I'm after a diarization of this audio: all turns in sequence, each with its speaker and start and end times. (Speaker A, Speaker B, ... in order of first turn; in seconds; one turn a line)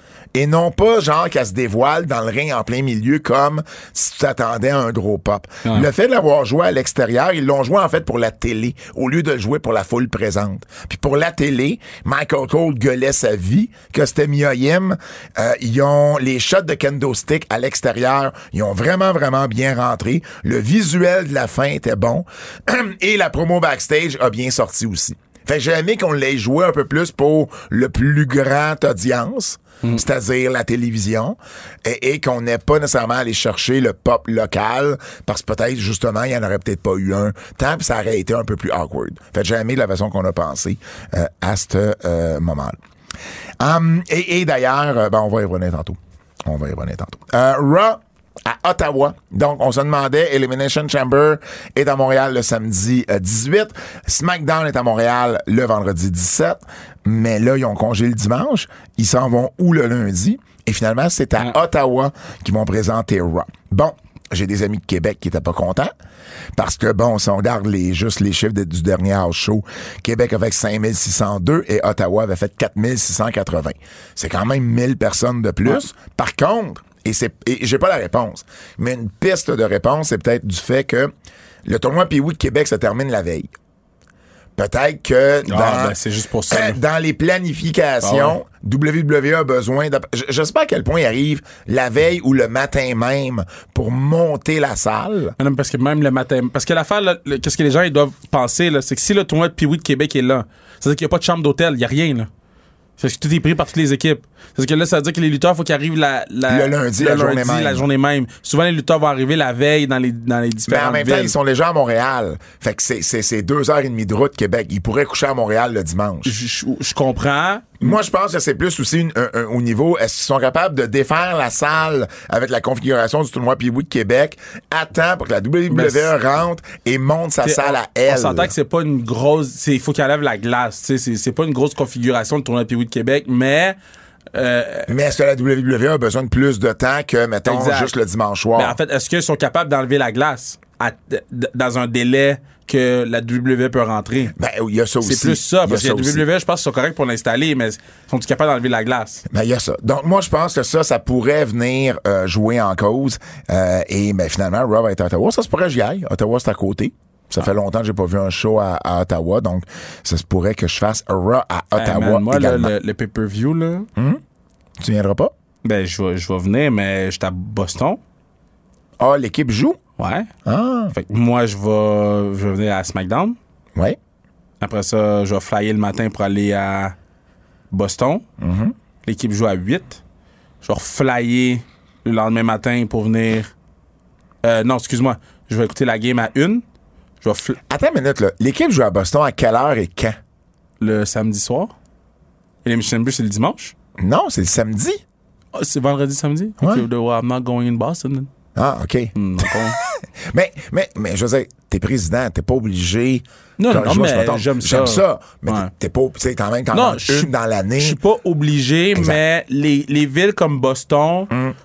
Speaker A: 0.3-42.8
Speaker A: 43.6-65.9
Speaker A: 66.6-81.1
Speaker A: 81.7-83.5
Speaker A: 84.6-86.0
Speaker B: 85.5-86.8
Speaker A: 86.5-95.3
Speaker B: 88.0-88.4
Speaker B: 95.4-102.3
Speaker B: 103.0-111.3
Speaker A: 106.5-107.8
Speaker A: 110.7-116.4
Speaker B: 116.2-117.9
Speaker A: 117.8-128.5
Speaker B: 125.7-126.1
Speaker B: 127.4-133.8
Speaker B: 134.3-134.9
Speaker A: 134.9-138.8
Speaker B: 137.4-137.9
Speaker B: 138.6-144.3
Speaker A: 144.4-146.2
Speaker B: 145.0-149.2
Speaker A: 149.3-162.7
Speaker B: 161.8-163.9
Speaker A: 164.0-164.2
Speaker A: 164.8-165.3
Speaker B: 165.6-168.0
Speaker A: 169.0-169.8
Speaker B: 170.0-170.3
Speaker A: 170.4-170.9
Speaker B: 170.9-173.4
Speaker B: 174.6-176.9
Speaker B: 177.7-178.2
Speaker A: 178.4-178.7
Speaker B: 179.0-180.0
Speaker B: 180.6-183.5
Speaker B: 184.4-186.6
Speaker B: 187.2-187.6
Speaker A: 187.7-190.2
Speaker B: 190.8-191.7
Speaker B: 192.6-193.8
Speaker A: 194.0-195.0
Speaker B: 195.5-198.3
Speaker A: 196.6-196.9
Speaker A: 198.6-199.5
Speaker B: 199.2-199.8
Speaker A: 200.2-208.0
Speaker B: 203.6-205.7
Speaker B: 206.7-211.3